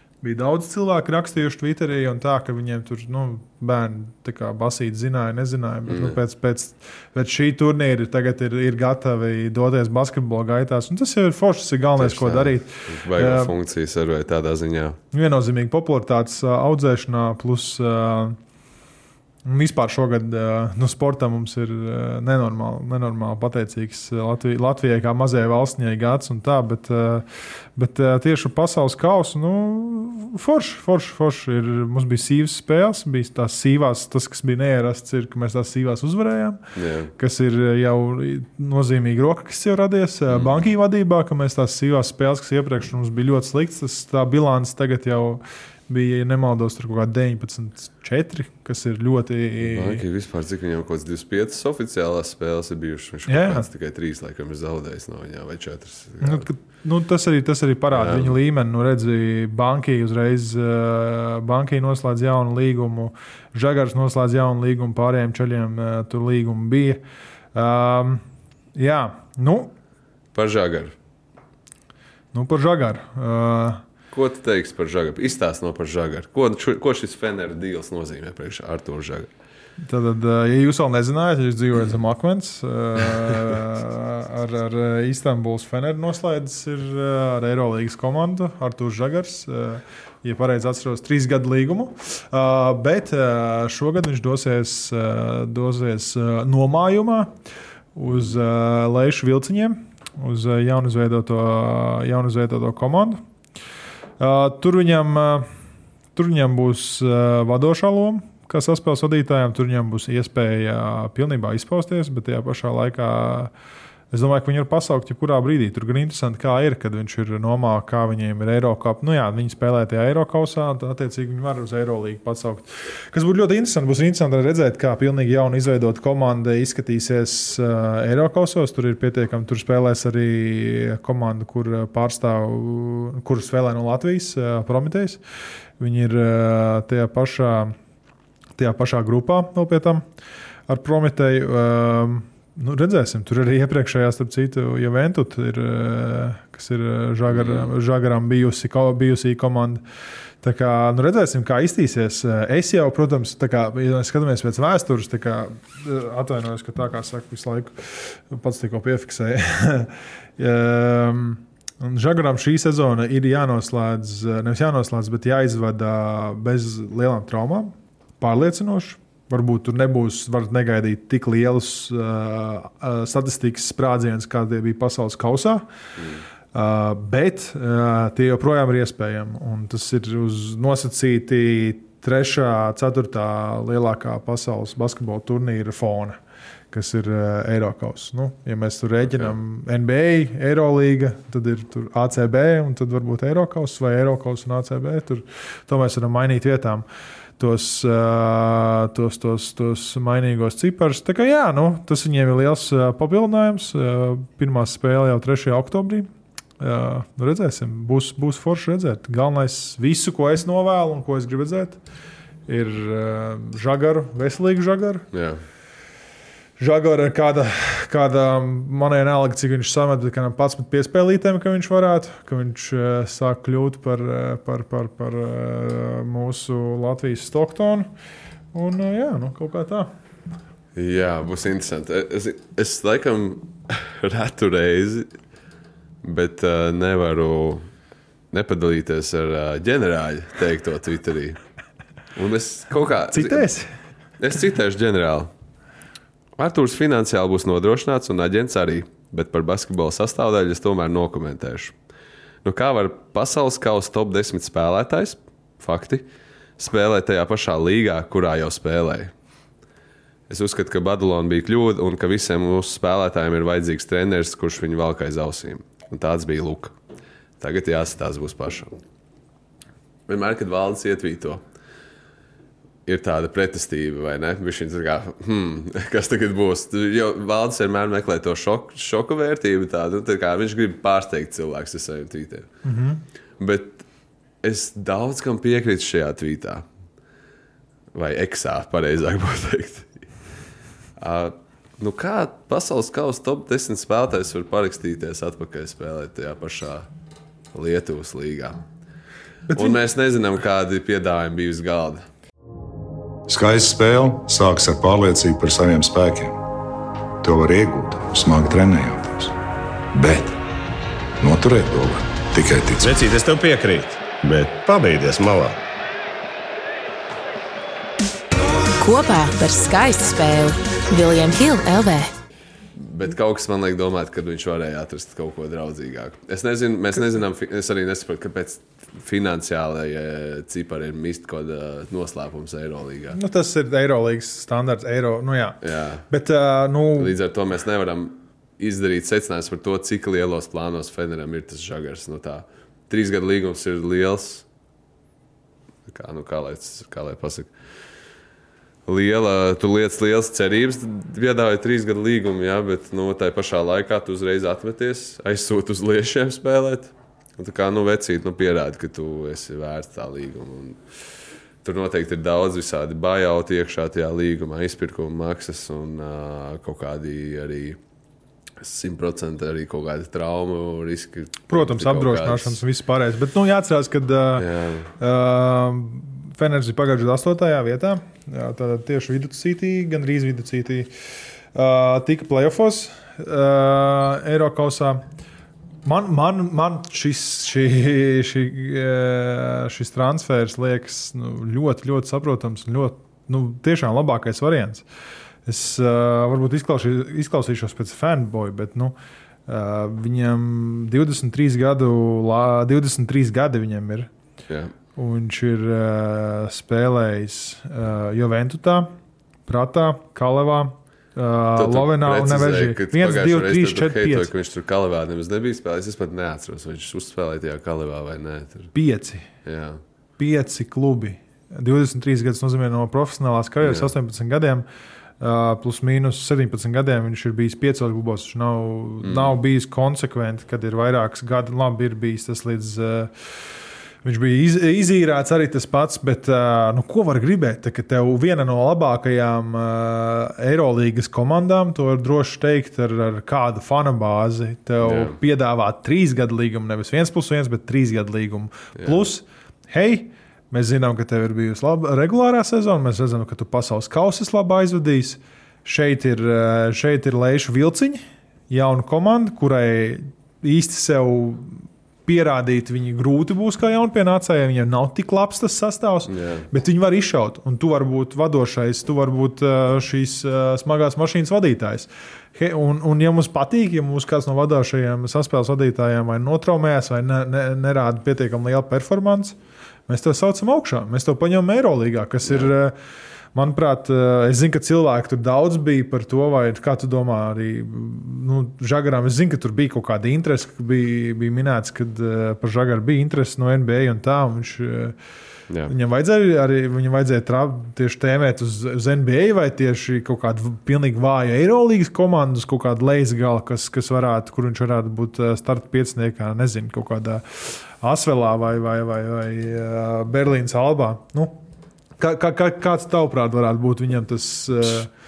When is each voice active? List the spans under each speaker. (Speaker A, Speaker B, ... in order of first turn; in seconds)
Speaker A: 0.2-13.5, 15.1-18.4, 19.4-36.6, 37.2-50.0, 53.3-53.7, 56.2-67.0, 67.5-68.2, 68.8-69.7, 72.3-73.8, 79.8-97.3, 98.0-103.2, 104.2-105.5, 106.2-113.5, 114.1-135.2, 135.8-137.7, 138.6-140.0, 140.7-149.8, 150.4-175.6, 176.5-186.2, 186.7-196.8, 197.4-206.1, 206.6-211.8, 212.5-215.0, 216.6-227.9, 228.5-229.9, 243.1-243.7, 282.6-283.0, 299.5-299.8, 333.1-337.1, 371.5-374.5, 375.0-380.9, 381.5-385.0, 385.8-394.8, 395.4-398.9, 399.5-404.1, 405.0-408.9, 409.5-414.3, 418.7-419.3, 420.2-424.6, 425.2-433.1, 434.0-479.4, 479.9-482.8, 483.3-494.9, 495.7-511.4, 512.0-514.9
Speaker B: 5.8-6.2, 12.0-15.0, 36.8-37.1, 49.6-56.5, 57.9-58.4, 70.3-70.9, 74.1-79.3, 147.3-147.7, 176.0-176.2, 215.1-215.4, 230.8-235.1, 236.0-237.7, 238.3-241.4, 242.2-243.5, 244.2-245.3, 246.4-251.7, 252.4-256.1, 256.6-259.1, 260.3-266.7, 267.4-268.8, 270.1-271.4, 272.9-282.5, 283.4-283.8, 284.4-286.6, 287.9-289.9, 291.0-296.9, 297.5-298.6, 299.5-302.0, 322.8-333.2, 335.6-336.1, 337.0-344.4, 345.9-347.5, 348.9-360.8, 361.6-367.8, 368.6-372.6, 374.4-374.9, 411.6-418.7, 419.4-419.8, 423.6-423.9, 429.0-429.3, 444.8-445.2, 466.1-466.5
Speaker C: 303.3-306.4, 307.2-309.3, 309.9-310.4, 311.2-312.9
Speaker D: 312.8-315.6
Speaker E: 318.8-322.1